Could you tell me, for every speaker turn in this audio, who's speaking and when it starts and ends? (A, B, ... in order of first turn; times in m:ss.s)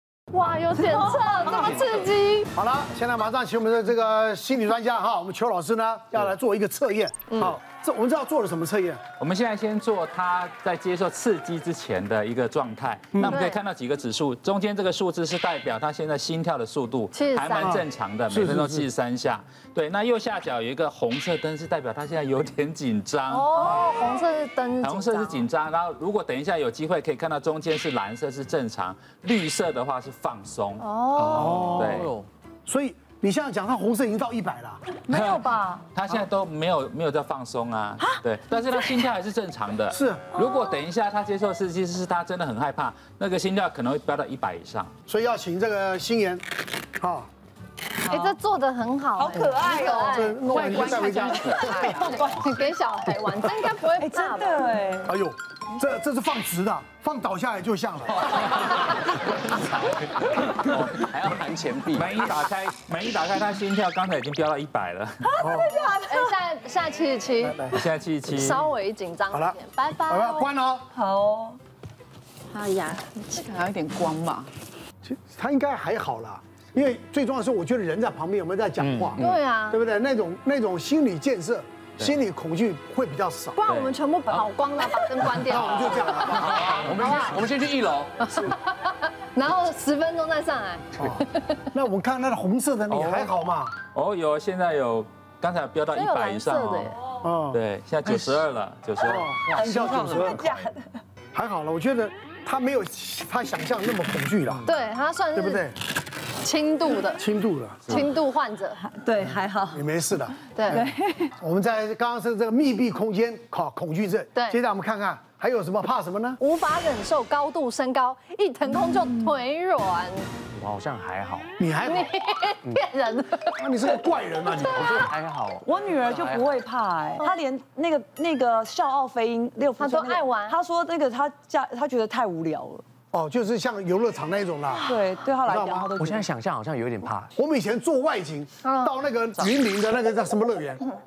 0:00.3-0:02.5 A
0:00.8-0:01.8 B
0:02.5-0:09.0 C
0:07.3-0:07.6 A
0:09.2-0:23.9 D
0:13.2-0:13.6 A
0:17.1-0:17.8 A
0:17.6-0:18.9 C
0:23.3-0:25.4 A
0:24.8-0:30.9 D
0:30.8-0:31.6 A
0:31.3-0:32.3 E
0:31.3-0:32.0 C
0:31.7-0:32.1 D
0:32.6-0:34.8 C
0:35.0-0:35.8 B
0:35.1-0:44.9 D
0:39.9-0:40.3 C
0:40.4-0:40.6 B
0:45.1-0:47.3 C
0:48.0-0:48.4 B
0:48.0-0:54.6 A
0:49.2-0:52.1 B
0:50.0-0:52.0 C
0:50.5-0:51.4 D
0:53.9-0:55.1 B
0:55.0-0:58.5 C
1:00.3-1:02.1 E
1:00.5-1:01.2 D
1:01.9-1:05.2 D
1:05.2-1:06.4 B
1:05.4-1:05.7 C
1:06.1-1:07.7 A
1:07.7-1:08.6 D
1:08.3-1:10.5 A
1:09.3-1:10.9 C
1:10.9-1:11.6 B
1:12.5-1:13.4 A
1:13.6-1:14.1 D
1:15.0-1:23.6 C
1:18.9-1:19.4 E
1:19.2-1:19.8 A
1:23.6-1:27.4 A
1:23.7-1:23.9 D
1:25.4-1:27.1 C
1:26.4-1:28.1 E
1:28.2-1:31.7 A
1:31.0-1:33.7 C
1:32.9-1:33.3 E
1:33.9-1:36.9 D
1:35.9-1:37.0 A
1:37.2-1:37.6 C
1:37.5-1:39.3 D
1:39.1-1:40.6 C
1:39.4-1:41.0 B
1:41.3-1:44.6 C
1:44.6-1:45.6 A
1:45.3-1:45.8 C
1:46.4-1:47.2 A
1:47.1-1:48.0 C
1:47.9-1:48.8 A
1:48.8-1:49.8 B
1:49.7-1:56.4 C
1:50.5-1:50.8 A
1:50.7-1:51.3 B
1:56.4-2:00.3 A
2:00.5-2:01.5 E
2:01.6-2:02.1 C
2:01.8-2:03.5 A
2:03.6-2:05.1 C
2:04.6-2:05.0 A
2:05.0-2:06.5 E
2:05.6-2:12.8 B
2:09.8-2:10.6 A
2:13.1-2:15.9 C
2:14.7-2:16.3 B
2:16.0-2:17.3 E
2:17.3-2:20.8 C
2:18.6-2:18.9 A